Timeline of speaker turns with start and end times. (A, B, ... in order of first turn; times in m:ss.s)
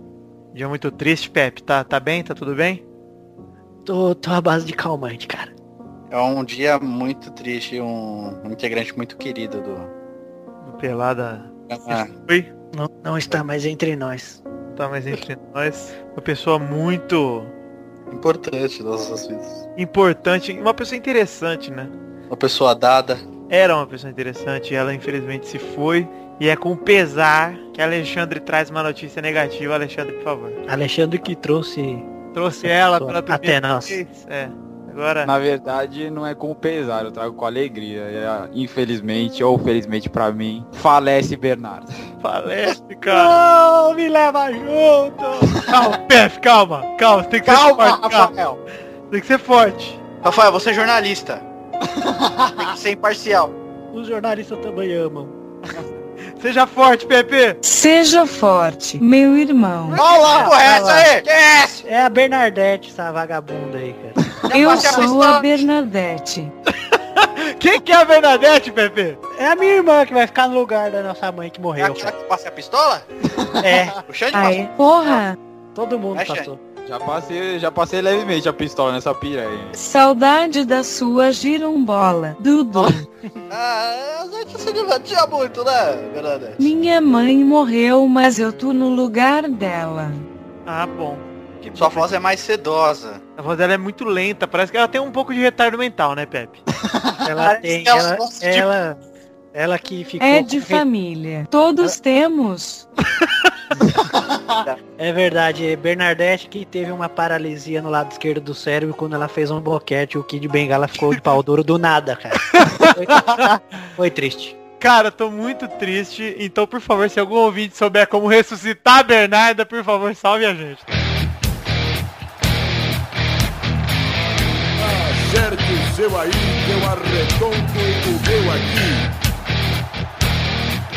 0:00.5-0:02.8 A
0:03.8-0:05.5 B
0:06.1-0:09.9 C
0:10.6-0:12.5 A
0:11.7-0:12.1 C
0:12.7-0:14.4 B
0:14.8-0:17.5 A
0:18.1-0:19.6 C
0:19.8-0:21.9 A
0:22.3-0:23.2 C
0:23.5-0:30.6 A
0:30.7-0:32.1 B
0:32.3-0:35.3 A
0:32.6-0:34.0 B
0:35.2-0:42.0 D
0:42.2-0:43.3 A
0:43.0-0:45.7 B
0:45.7-0:48.3 A
0:47.5-0:48.3 C
0:47.5-0:48.6 D
0:49.1-0:50.0 A
0:50.2-0:51.4 C
0:52.0-0:52.6 D
0:52.6-0:53.6 C
0:53.9-0:55.3 B
0:56.4-0:57.6 A
0:57.6-1:00.0 E
0:59.9-1:01.8 C
1:00.0-1:01.1 B
1:00.1-1:00.5 A
1:01.8-1:05.1 B
1:04.5-1:05.5 C
1:04.5-1:06.5 E
1:06.9-1:09.2 A
1:09.3-1:12.1 B
1:11.8-1:13.1 C
1:13.6-1:14.0 B
1:14.1-1:15.2 C
1:14.3-1:15.4 E
1:15.8-1:16.6 B
1:16.1-1:16.5 C
1:16.9-1:19.7 D
1:19.7-1:23.1 E
1:23.5-1:26.6 C
1:26.6-1:30.3 E
1:30.7-1:32.1 A
1:31.8-1:33.2 C
1:33.4-1:36.6 A
1:37.1-1:38.7 C
1:37.2-1:39.0 B
1:39.5-1:40.8 B
1:40.2-1:42.9 E
1:45.0-1:54.6 B
1:52.5-1:53.8 A
1:54.8-2:01.0 A
2:04.8-2:09.1 F